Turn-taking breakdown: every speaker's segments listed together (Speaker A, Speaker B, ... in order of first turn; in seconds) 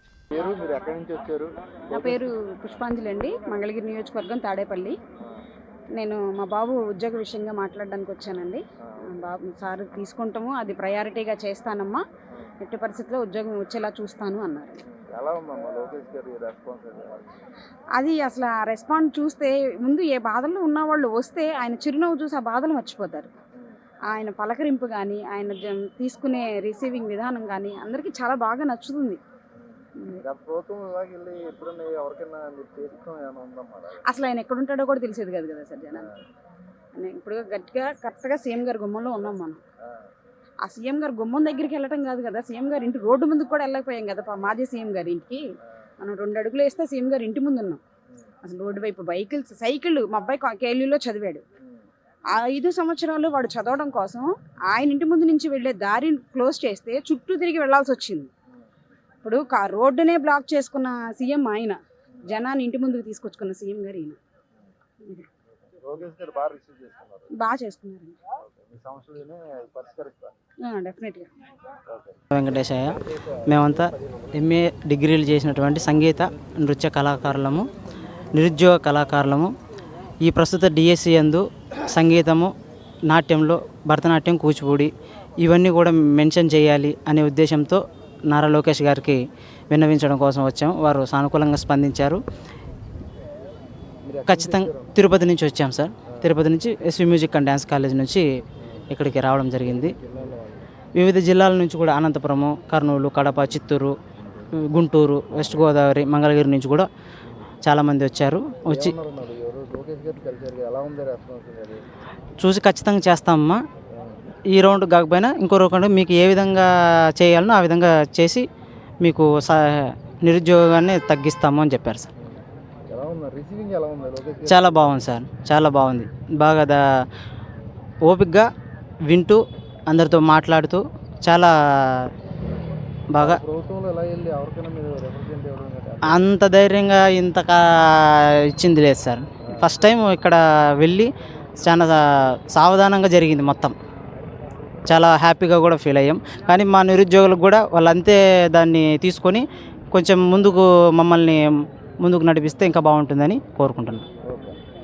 Speaker A: 0.3-2.3, 8.8-9.2, 12.3-12.6, 14.9-17.3, 29.5-34.0, 48.1-48.3, 51.6-51.9, 65.8-67.3, 68.4-70.4, 71.9-72.2, 73.3-74.3, 94.0-94.9, 96.1-96.3, 98.6-98.8, 99.8-100.7, 108.7-111.8, 113.9-114.2, 122.2-125.0, 133.2-136.3, 139.4-139.7, 154.2-154.6
Speaker B: 1.9-5.0, 6.0-12.0, 12.6-14.8, 18.0-23.4, 24.1-29.2, 34.0-36.1, 37.0-39.6, 40.6-45.4, 46.0-47.8, 48.4-51.4, 52.3-58.3, 59.2-64.2, 67.3-68.2, 70.6-71.3
Speaker C: 72.3-77.7, 78.3-79.5, 80.2-82.5, 83.1-89.2, 89.7-92.2, 94.3-98.2, 98.9-99.9, 100.9-104.0, 104.7-106.9, 107.6-109.0, 112.4-113.6, 114.5-118.5, 119.0-122.1, 124.5-126.8, 128.1-128.5, 129.1-132.1, 133.1-133.4, 136.1-143.7, 144.9-151.4, 152.0-154.0